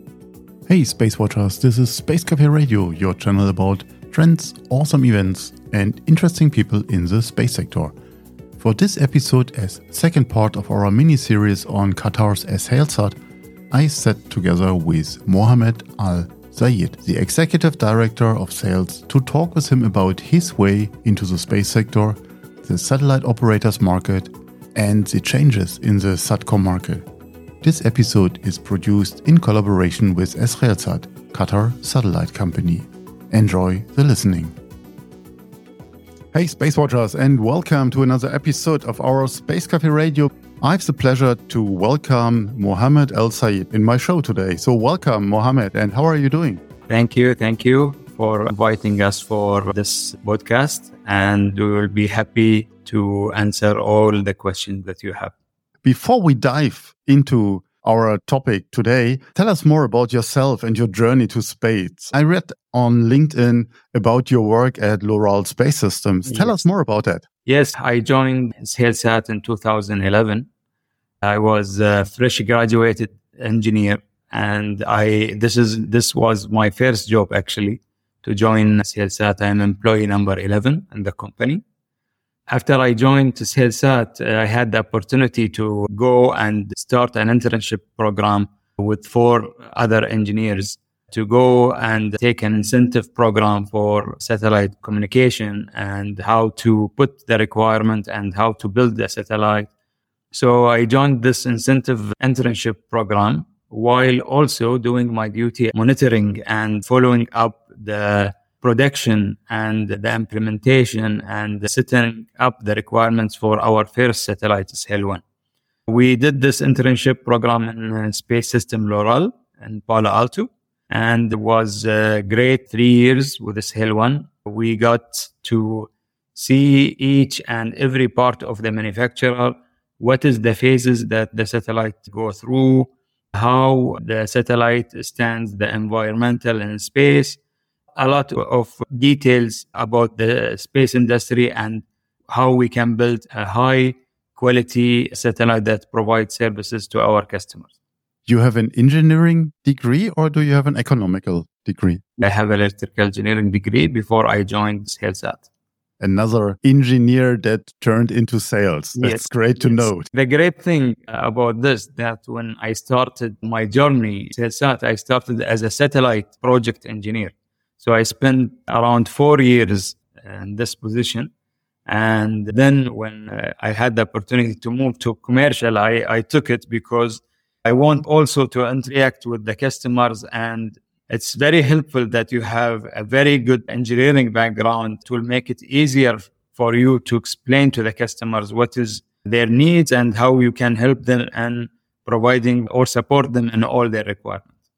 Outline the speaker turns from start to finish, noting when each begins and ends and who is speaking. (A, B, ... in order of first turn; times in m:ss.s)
0:00.7-0:07.9 A
0:08.6-0:13.2 A
0:13.7-0:27.0 A
0:27.6-0:34.5 A
0:36.3-0:46.6 A
0:46.9-0:55.3 B
0:55.8-1:07.2 A
1:06.2-1:06.6 B
1:07.4-1:10.5 B
1:11.2-1:21.6 B
1:22.5-1:39.7 B
1:40.3-1:55.2 B
1:55.9-2:17.4 B
2:18.0-2:27.7 B
2:28.3-2:32.0 A
2:32.2-2:35.5 B
2:36.0-2:40.0 A
2:39.0-2:51.3 B
2:51.9-3:14.5 B